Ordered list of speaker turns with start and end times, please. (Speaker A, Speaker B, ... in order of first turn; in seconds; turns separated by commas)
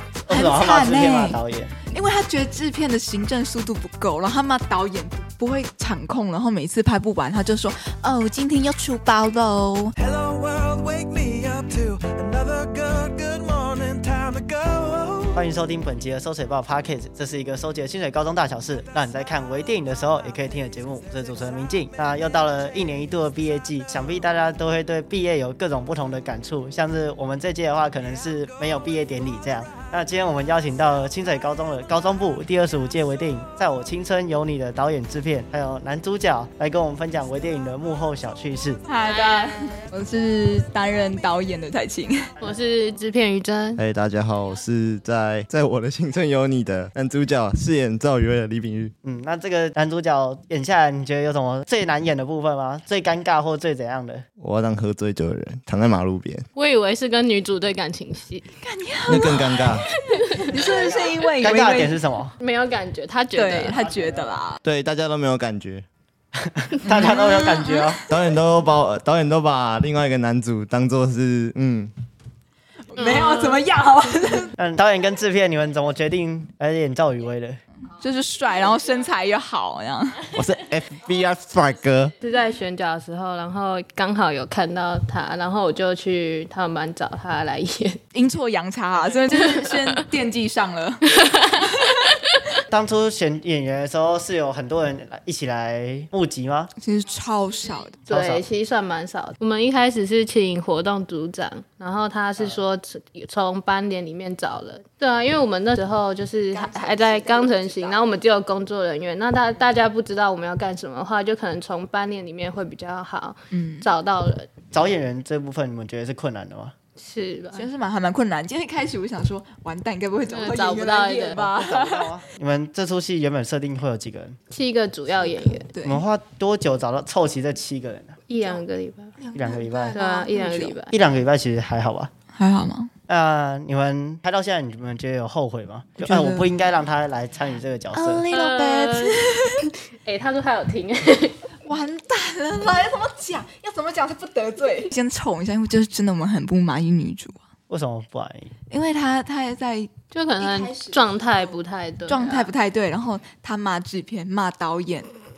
Speaker A: 0.2-1.8, Speaker B: 0.3-9.9, Speaker C: 10.0-15.4, Speaker A: 15.3-38.8, Speaker B: 38.8-42.3, Speaker D: 39.0-39.7, Speaker D: 42.4-43.8, Speaker E: 43.8-48.9, Speaker A: 49.0-54.2, Speaker E: 54.4-56.5, Speaker D: 56.5-58.5, Speaker B: 58.6-59.6, Speaker E: 59.1-59.9, Speaker D: 60.1-60.4, Speaker B: 60.5-62.0, Speaker A: 60.5-62.3, Speaker D: 62.4-63.8, Speaker B: 63.3-64.6, Speaker A: 63.8-64.3, Speaker E: 64.6-65.9, Speaker A: 66.4-68.0, Speaker B: 66.9-68.0, Speaker E: 68.1-71.9, Speaker B: 72.9-74.5, Speaker D: 73.0-73.6, Speaker A: 74.6-77.6, Speaker B: 77.9-80.3, Speaker E: 80.3-82.1, Speaker D: 82.2-88.0, Speaker B: 88.1-91.0, Speaker D: 89.3-89.8, Speaker D: 91.2-91.7, Speaker A: 92.7-96.7, Speaker B: 96.8-98.0, Speaker A: 98.1-98.4, Speaker D: 98.1-114.5, Speaker B: 106.5-108.2, Speaker B: 113.5-113.9, Speaker A: 114.7-116.7, Speaker D: 117.0-117.7, Speaker B: 117.5-122.1, Speaker D: 120.3-121.4, Speaker A: 121.4-124.4, Speaker D: 124.5-125.7, Speaker B: 125.2-126.0, Speaker A: 125.8-128.2, Speaker D: 128.3-129.2, Speaker B: 129.2-130.8, Speaker A: 129.3-130.0, Speaker D: 129.9-130.9, Speaker A: 130.9-132.1, Speaker B: 132.3-132.9, Speaker A: 133.1-138.2, Speaker B: 136.0-136.5, Speaker B: 137.9-139.6, Speaker D: 138.3-139.2, Speaker D: 140.0-141.4, Speaker B: 141.7-147.4, Speaker A: 147.7-148.5, Speaker B: 148.7-151.5, Speaker D: 150.1-152.5, Speaker B: 152.1-155.1